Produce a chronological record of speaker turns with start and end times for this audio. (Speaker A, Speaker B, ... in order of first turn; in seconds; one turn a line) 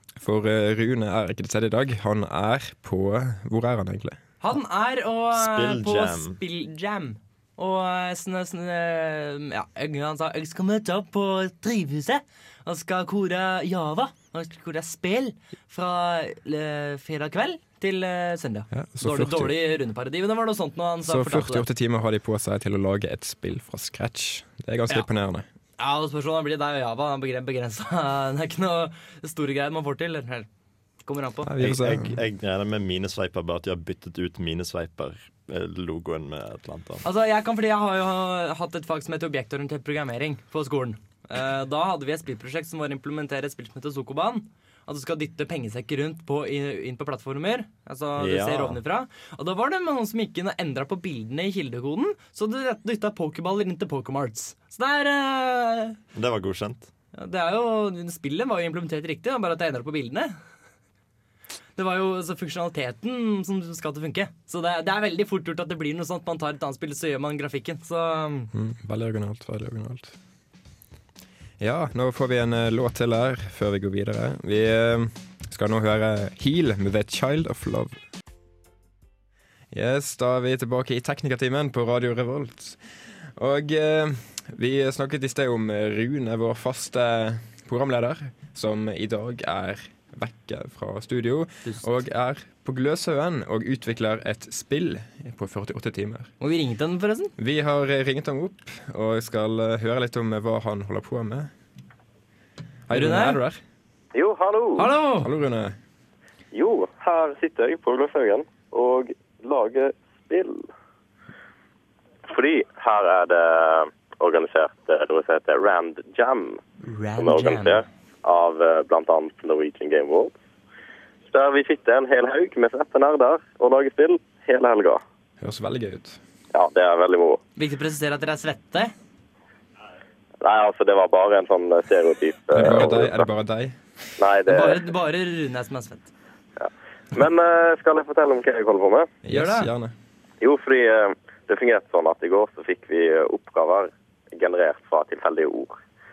Speaker A: 0.2-4.2
Speaker B: 4.4-21.7
Speaker C: 5.3-6.4
Speaker A: 18.7-19.6
Speaker A: 21.0-25.5
Speaker B: 25.8-30.5
Speaker B: 31.1-31.5
Speaker A: 31.4-32.2
Speaker C: 31.6-37.0
Speaker B: 37.0-56.0
Speaker C: 48.2-48.8
Speaker C: 56.1-56.9
Speaker B: 57.1-60.4
Speaker B: 61.8-68.5
Speaker A: 68.5-70.1
Speaker A: 71.6-78.0
Speaker A: 79.7-82.8
Speaker A: 83.4-96.3
Speaker B: 96.4-97.3
Speaker A: 97.4-101.5
Speaker A: 102.9-103.6
Speaker B: 102.9-103.4
Speaker D: 104.1-104.9
Speaker B: 104.8-105.3
Speaker A: 105.2-105.8
Speaker D: 106.5-110.7
Speaker D: 112.3-116.6
Speaker B: 116.9-117.8
Speaker D: 117.2-120.3
Speaker D: 121.3-125.0
Speaker A: 125.4-126.2
Speaker D: 126.5-127.4
Speaker B: 127.6-128.9
Speaker D: 130.4-133.2
Speaker A: 132.5-133.8
Speaker D: 134.2-134.8
Speaker B: 134.5-136.1
Speaker D: 136.6-139.1
Speaker A: 139.2-139.9
Speaker B: 139.3-139.7
Speaker D: 140.4-145.8